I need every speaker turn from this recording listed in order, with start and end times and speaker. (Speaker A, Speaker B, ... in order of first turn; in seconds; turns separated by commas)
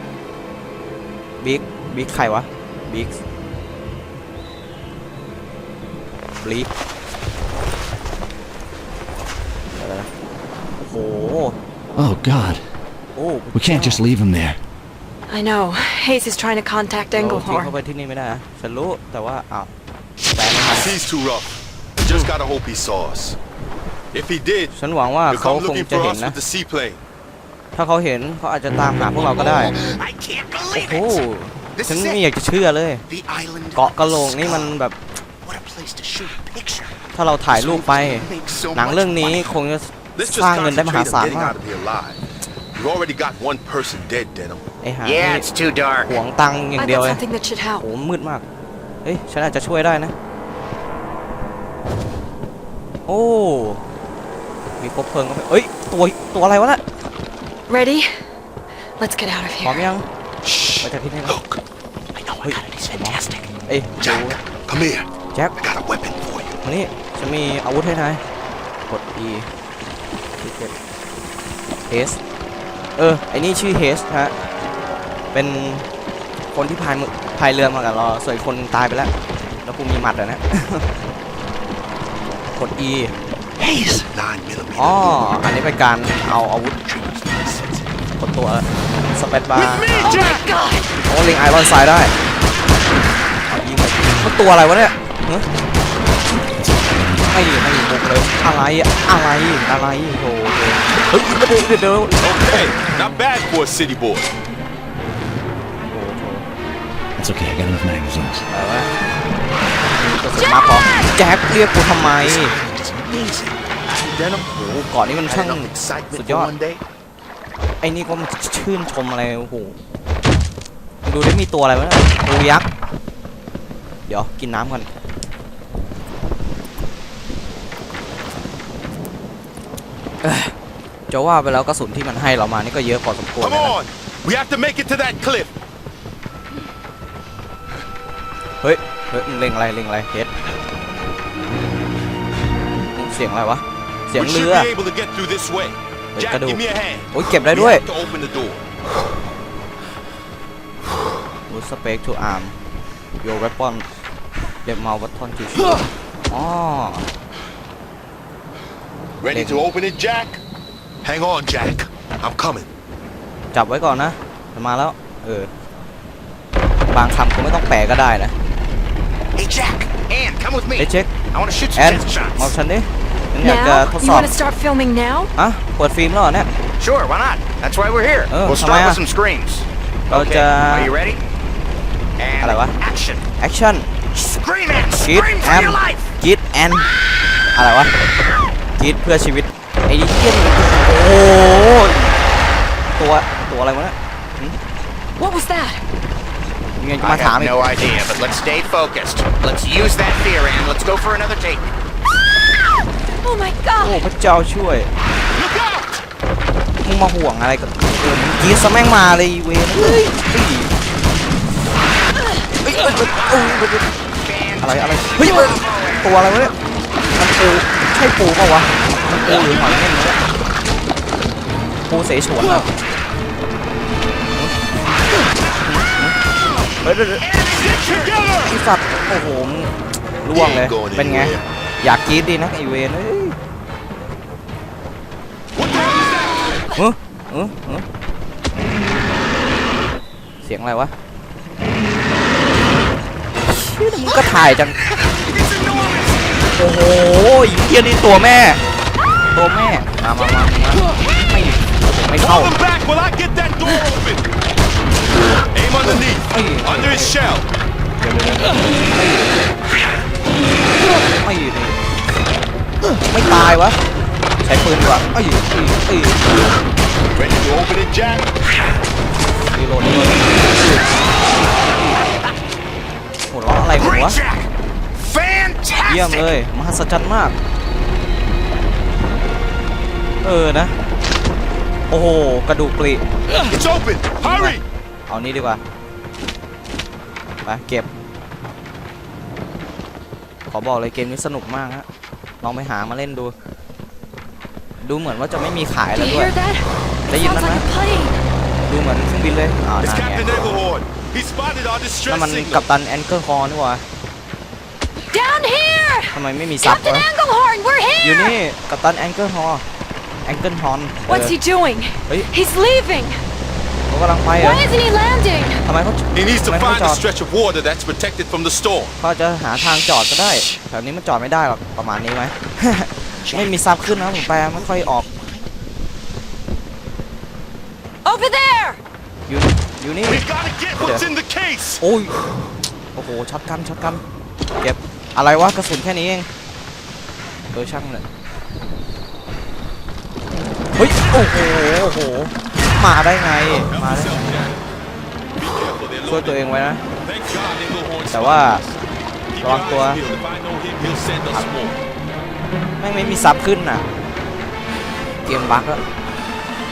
Speaker A: 1.4-3.2, Speaker A: 6.4-6.7, Speaker A: 9.8-10.1, Speaker A: 10.8-11.6, Speaker B: 12.0-12.7, Speaker A: 13.2-14.1, Speaker B: 13.5-14.6, Speaker C: 15.3-17.7, Speaker A: 17.1-19.7, Speaker A: 20.4-20.9, Speaker D: 20.7-23.4, Speaker D: 24.1-24.8, Speaker A: 24.8-26.4, Speaker D: 25.3-27.0, Speaker A: 27.8-29.7, Speaker E: 29.1-31.2, Speaker A: 30.7-33.0, Speaker E: 31.7-32.2, Speaker E: 33.1-34.7, Speaker A: 33.8-35.0, Speaker E: 35.4-37.0, Speaker A: 37.1-41.6, Speaker E: 37.5-39.6, Speaker D: 40.2-42.2, Speaker D: 42.8-44.6, Speaker A: 44.8-45.5, Speaker E: 45.0-46.2, Speaker A: 46.1-47.2, Speaker C: 46.8-47.9, Speaker A: 47.8-48.4, Speaker A: 49.0-50.1, Speaker A: 53.1-53.8, Speaker A: 54.8-56.8, Speaker C: 57.7-58.2, Speaker C: 59.0-59.9, Speaker A: 59.6-60.1, Speaker D: 60.4-61.6, Speaker A: 60.8-61.4, Speaker E: 62.1-63.5, Speaker A: 62.4-64.4, Speaker D: 64.0-65.1, Speaker D: 65.6-66.5, Speaker A: 66.6-68.2, Speaker A: 68.9-69.5, Speaker A: 70.4-70.7, Speaker A: 71.9-72.2, Speaker A: 73.0-74.3, Speaker A: 75.3-75.9, Speaker A: 76.5-79.1, Speaker A: 79.6-80.9, Speaker A: 82.5-83.2, Speaker E: 83.6-85.1, Speaker A: 84.8-86.8, Speaker E: 86.8-88.0, Speaker A: 88.2-90.2, Speaker D: 89.5-90.4, Speaker C: 90.0-90.9, Speaker A: 91.1-92.2, Speaker A: 93.5-95.5, Speaker B: 96.5-97.4, Speaker A: 97.3-103.0, Speaker D: 102.2-104.3, Speaker A: 105.9-106.5, Speaker B: 107.2-108.5, Speaker A: 108.5-108.9, Speaker A: 109.8-112.6, Speaker C: 110.3-111.1, Speaker E: 112.2-116.8, Speaker A: 114.7-116.5, Speaker A: 117.8-119.8, Speaker A: 121.0-122.7, Speaker A: 124.1-124.9, Speaker A: 130.2-130.5, Speaker A: 131.1-133.8, Speaker D: 133.4-135.5, Speaker A: 138.6-140.3, Speaker A: 142.9-144.7, Speaker D: 144.2-148.6, Speaker A: 146.2-147.9, Speaker A: 151.5-152.6, Speaker A: 153.2-153.9, Speaker A: 154.7-157.1, Speaker D: 159.2-160.4, Speaker A: 159.3-159.7, Speaker D: 161.0-162.7, Speaker A: 163.5-165.5, Speaker A: 166.9-168.3, Speaker E: 169.4-172.5, Speaker A: 170.8-171.1, Speaker A: 171.8-174.3, Speaker C: 173.4-175.3, Speaker A: 175.4-176.5, Speaker E: 176.8-181.2, Speaker A: 178.3-179.0, Speaker A: 180.1-180.9, Speaker E: 182.2-183.2, Speaker A: 182.4-182.8, Speaker A: 183.4-183.9, Speaker E: 184.1-186.1, Speaker A: 185.0-186.9, Speaker A: 187.5-187.9, Speaker A: 188.8-192.1, Speaker A: 193.0-194.6, Speaker C: 195.2-195.8, Speaker A: 196.8-197.6, Speaker E: 197.0-201.7, Speaker C: 203.2-204.0, Speaker A: 203.8-204.9, Speaker D: 205.3-206.0, Speaker A: 206.8-210.7, Speaker A: 212.6-213.8, Speaker E: 214.2-216.4, Speaker A: 214.6-216.5, Speaker A: 217.2-220.2, Speaker A: 221.9-222.7, Speaker A: 225.7-226.2, Speaker A: 226.8-227.2, Speaker E: 227.2-228.1, Speaker D: 227.6-228.6, Speaker A: 228.4-233.4, Speaker D: 230.3-231.4, Speaker D: 235.6-236.6, Speaker C: 235.8-236.8, Speaker A: 236.8-237.9, Speaker A: 240.4-240.9, Speaker A: 243.5-244.8, Speaker E: 245.3-246.5, Speaker D: 245.3-246.1, Speaker A: 246.6-248.6, Speaker A: 249.3-252.5, Speaker D: 252.2-254.3, Speaker D: 255.5-257.5, Speaker A: 256.3-257.2, Speaker A: 258.0-259.4, Speaker A: 261.1-261.8, Speaker A: 263.1-263.8, Speaker A: 264.4-266.2, Speaker D: 267.1-268.3, Speaker A: 269.5-270.4, Speaker E: 270.6-270.9, Speaker E: 271.6-272.4, Speaker A: 273.3-274.2, Speaker E: 273.8-276.3, Speaker A: 275.9-277.4, Speaker A: 280.2-280.8, Speaker A: 281.9-283.1, Speaker D: 283.4-284.6, Speaker A: 284.2-285.6, Speaker A: 287.4-287.9, Speaker A: 290.5-291.9, Speaker A: 292.4-293.3, Speaker A: 294.8-296.3, Speaker C: 295.9-298.2, Speaker A: 297.1-297.7, Speaker A: 298.7-300.5, Speaker D: 299.8-302.7, Speaker A: 302.1-303.8, Speaker C: 305.1-308.4, Speaker A: 306.1-307.1, Speaker A: 308.0-309.6, Speaker A: 310.2-311.4, Speaker C: 311.1-313.2, Speaker A: 313.9-314.6, Speaker C: 314.4-315.6, Speaker A: 315.6-317.0, Speaker D: 316.1-318.9, Speaker A: 319.0-325.1, Speaker E: 323.2-325.5, Speaker C: 328.1-328.8, Speaker A: 329.3-330.2, Speaker D: 330.1-331.8, Speaker A: 330.8-331.1, Speaker A: 331.8-332.1, Speaker A: 332.9-334.0, Speaker A: 334.6-336.3, Speaker A: 337.5-338.0, Speaker A: 340.8-344.3, Speaker D: 343.7-344.6, Speaker D: 345.4-346.4, Speaker A: 346.1-346.8, Speaker D: 347.0-348.7, Speaker A: 348.1-348.6, Speaker D: 349.3-351.8, Speaker A: 349.4-350.0, Speaker A: 352.8-353.9, Speaker A: 355.2-355.8